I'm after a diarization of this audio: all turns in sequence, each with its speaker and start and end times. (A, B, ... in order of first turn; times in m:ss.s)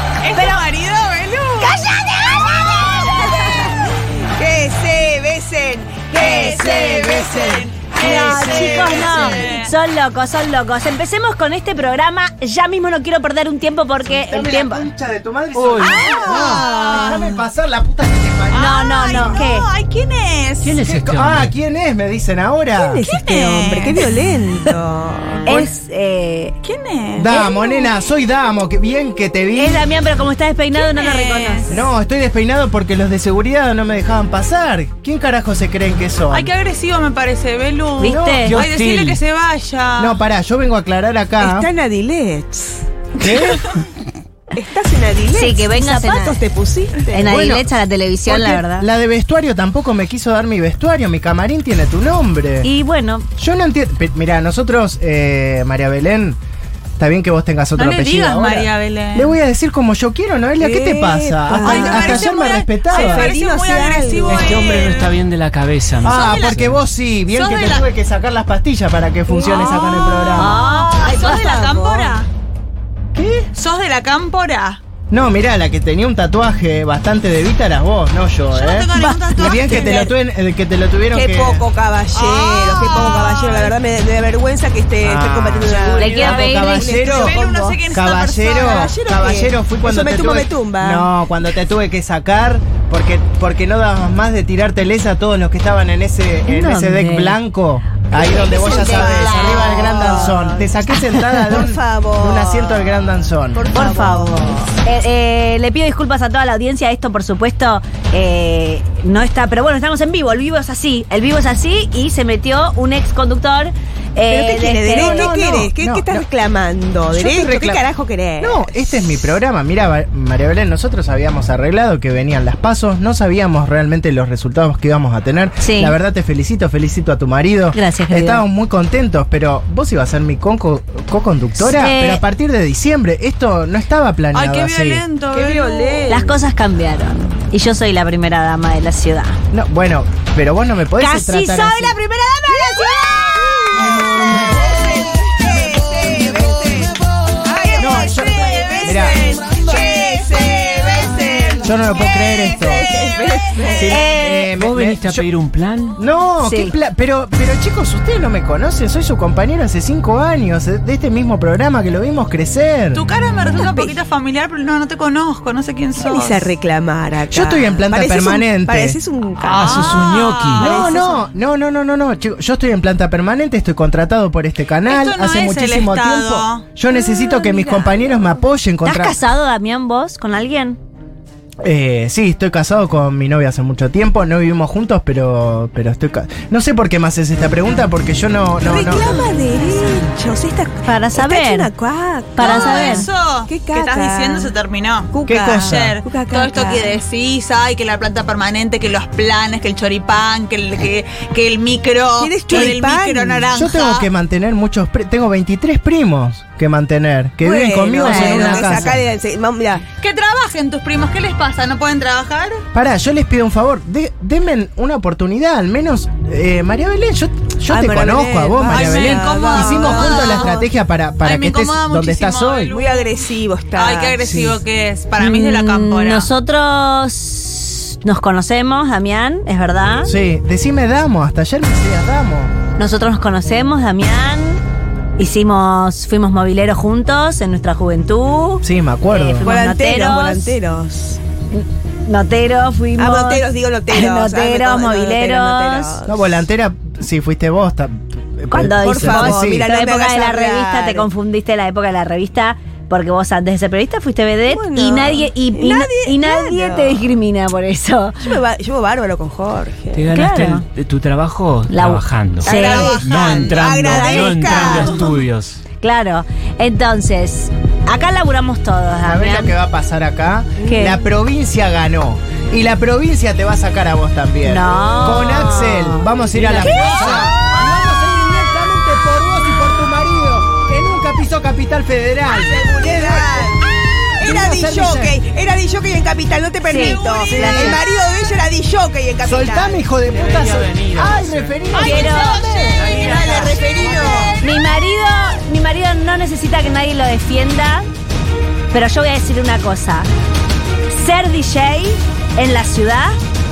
0:00.2-0:01.8 A
0:00.3-0:00.6 B
0:01.6-0:07.3 C
0:06.2-0:07.7 D
0:06.2-0:09.7 A
0:07.9-0:09.6 C
0:08.0-0:14.9 B
0:14.3-0:19.4 D
0:15.6-0:16.4 E
0:15.8-0:17.2 A
0:15.8-0:17.4 C
0:18.5-0:21.1 A
0:18.6-0:19.6 B
0:20.6-0:21.5 E
0:21.0-0:23.0 D
0:22.8-0:25.7 C
0:23.0-0:24.1 A
0:25.5-0:26.6 B
0:26.6-0:27.5 A
0:27.2-0:29.8 D
0:27.3-0:27.6 B
0:29.6-0:31.8 B
0:30.7-0:31.8 A
0:31.7-0:36.5 D
0:36.3-0:40.2 A
0:38.0-0:38.6 B
0:38.0-0:38.6 D
0:38.3-0:39.2 E
0:40.0-0:41.7 D
0:41.4-0:42.8 C
0:43.2-0:43.7 D
0:44.5-0:47.3 C
0:45.3-0:46.4 B
0:47.1-0:48.9 B
0:47.2-0:47.7 D
0:48.2-0:52.7 D
0:52.6-0:53.2 B
0:53.4-0:56.4 D
0:57.0-1:03.3 D
0:57.8-0:59.4 A
1:00.6-1:02.2 C
1:01.6-1:05.1 A
1:02.9-1:04.5 C
1:04.2-1:06.8 E
1:06.0-1:10.5 D
1:06.0-1:06.6 A
1:07.3-1:07.9 A
1:09.4-1:12.3 A
1:10.3-1:12.2 B
1:13.2-1:13.5 D
1:13.5-1:14.8 A
1:15.1-1:21.6 D
1:18.5-1:20.1 A
1:19.0-1:19.2 B
1:19.7-1:20.1 C
1:21.1-1:27.8 C
1:22.1-1:23.8 A
1:25.0-1:27.4 D
1:26.0-1:26.9 B
1:27.1-1:28.9 A
1:27.9-1:43.6 D
1:28.6-1:31.1 C
1:36.4-1:37.4 B
1:38.1-1:40.7 C
1:38.4-1:41.4 B
1:41.4-1:44.6 C
1:43.7-1:55.3 B
1:54.3-1:58.7 C
1:54.9-1:56.2 D
1:57.1-1:57.8 D
1:58.4-2:15.0 D
2:05.6-2:05.9 B
2:07.7-2:08.4 B
2:11.6-2:12.2 B
2:14.3-2:16.3 A
2:15.3-2:16.4 C
2:16.1-2:19.4 B
2:19.5-2:22.0 D
2:21.0-2:23.5 B
2:22.4-2:34.2 C
2:27.8-2:29.2 D
2:31.6-2:32.9 D
2:33.8-2:35.3 D
2:33.8-2:34.5 B
2:34.5-2:36.0 E
2:36.0-2:43.0 D
2:36.4-2:36.7 B
2:42.9-2:46.5 A
2:43.5-2:44.0 C
2:46.0-2:51.3 C
2:47.3-2:49.0 D
2:49.4-2:50.8 E
2:49.4-2:50.7 A
2:50.6-2:59.2 D
2:54.8-2:56.7 A
2:56.9-2:58.4 C
2:58.8-3:00.8 B
3:01.6-3:09.2 D
3:08.6-3:14.5 C
3:09.1-3:10.1 B
3:10.8-3:11.7 B
3:12.4-3:13.1 B
3:12.4-3:24.1 A
3:15.1-3:16.9 C
3:15.2-3:16.0 D
3:22.2-3:23.5 C
3:23.5-3:29.0 D
3:27.4-3:29.8 C
3:28.0-3:28.9 B
3:30.0-3:32.6 A
3:32.7-3:42.7 D
3:37.7-3:40.6 C
3:38.6-3:40.6 A
3:41.2-3:46.3 A
3:42.7-3:44.2 C
3:44.2-3:44.6 D
3:45.2-3:50.1 B
3:50.0-3:52.5 D
3:52.8-3:54.6 B
3:55.2-4:00.6 B
3:58.6-3:59.5 D
3:59.4-4:01.2 C
4:01.5-4:06.0 B
4:03.0-4:06.4 C
4:06.0-4:09.6 D
4:08.5-4:18.4 B
4:08.6-4:11.1 C
4:14.4-4:17.1 C
4:18.2-4:20.1 C
4:19.9-4:25.6 E
4:20.1-4:20.6 B
4:21.7-4:23.0 B
4:22.4-4:25.1 C
4:22.4-4:25.1 A
4:25.8-4:29.6 B
4:29.0-4:43.5 D
4:30.6-4:31.1 B
4:34.4-4:37.4 B
4:36.4-4:37.3 E
4:42.3-4:49.8 C
4:44.2-4:45.2 D
4:46.6-4:47.8 B
4:47.1-4:47.8 D
4:49.2-4:52.8 D
4:50.1-4:54.3 E
4:51.7-4:52.5 A
4:51.8-4:52.4 B
4:52.4-4:54.4 C
4:54.4-4:57.9 B
4:58.7-5:00.1 B
5:00.9-5:03.1 B